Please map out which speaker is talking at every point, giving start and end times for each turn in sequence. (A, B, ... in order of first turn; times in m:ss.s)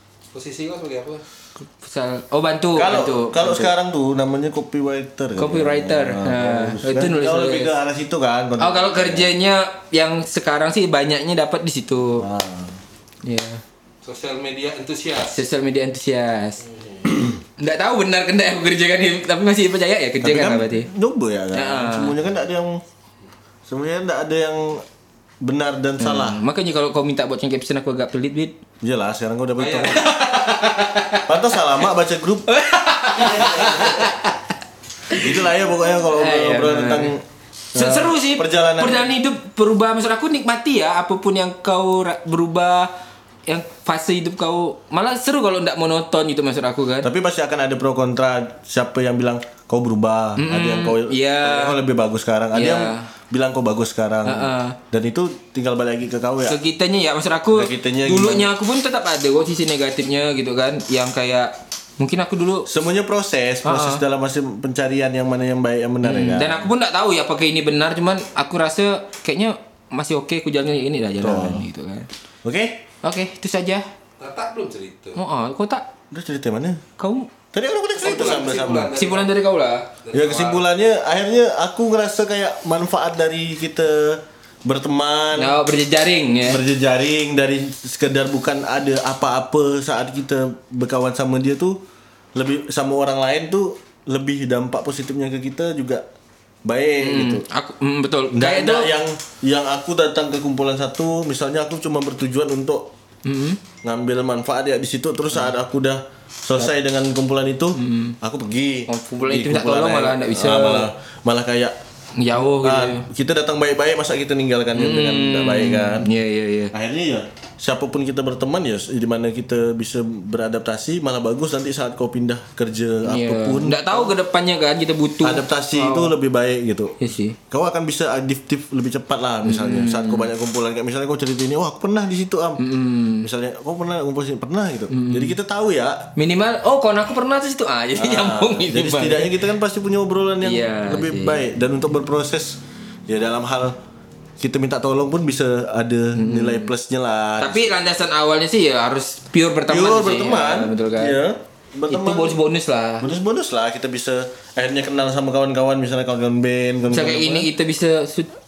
0:00.3-0:01.2 A
0:01.6-0:03.7 B
0:02.7-0:09.3 C
0:05.4-0:07.7 B
0:08.6-0:12.3 B
0:12.2-0:12.8 C
0:13.2-0:13.6 B
0:14.0-0:15.4 A
0:15.3-0:20.9 B
0:16.7-0:17.1 A
0:20.2-0:22.8 C
0:21.5-0:22.2 B
0:23.7-0:24.8 C
0:25.4-0:26.4 C
0:26.0-0:28.6 B
0:28.8-0:30.2 C
0:29.6-0:30.1 A
0:30.0-0:31.2 B
0:31.2-0:32.5 C
0:32.5-0:34.5 B
0:33.1-0:34.0 C
0:35.1-0:35.4 B
0:35.1-0:37.2 C
0:36.1-0:37.1 B
0:37.8-0:39.2 C
0:37.8-0:42.9 B
0:43.5-0:47.1 B
0:47.0-0:56.6 C
0:50.4-0:51.8 B
0:52.5-0:53.1 B
0:54.2-0:54.8 B
0:56.5-1:02.7 B
0:57.5-0:58.5 C
1:02.7-1:06.7 C
1:03.6-1:04.0 B
1:06.0-1:12.1 B
1:11.2-1:11.6 C
1:12.4-1:12.8 C
1:13.0-1:13.9 B
1:14.2-1:15.2 A
1:15.2-1:15.9 B
1:16.1-1:16.8 C
1:17.0-1:17.3 B
1:17.5-1:18.9 C
1:18.0-1:19.3 A
1:19.0-1:19.9 B
1:20.0-1:20.6 A
1:20.1-1:25.6 C
1:25.3-1:26.6 B
1:26.5-1:31.8 C
1:32.4-1:36.0 C
1:36.6-1:37.4 C
1:37.0-1:38.9 B
1:38.3-1:42.9 C
1:43.2-1:43.6 B
1:43.8-1:51.8 C
1:47.8-1:48.2 B
1:48.9-1:50.9 B
1:52.2-1:53.1 B
1:52.4-1:56.1 C
1:54.8-1:56.7 B
1:56.7-2:04.1 C
2:03.0-2:06.1 B
2:05.2-2:07.0 C
2:07.0-2:07.4 B
2:07.5-2:12.6 C
2:09.4-2:10.3 B
2:12.6-2:13.3 B
2:13.2-2:16.1 C
2:14.9-2:15.3 B
2:16.2-2:19.3 B
2:18.0-2:23.8 C
2:20.4-2:21.4 B
2:24.4-2:27.7 C
2:26.1-2:26.7 B
2:27.4-2:31.2 B
2:29.7-2:32.4 C
2:31.9-2:33.1 B
2:33.0-2:37.5 C
2:36.9-2:38.3 B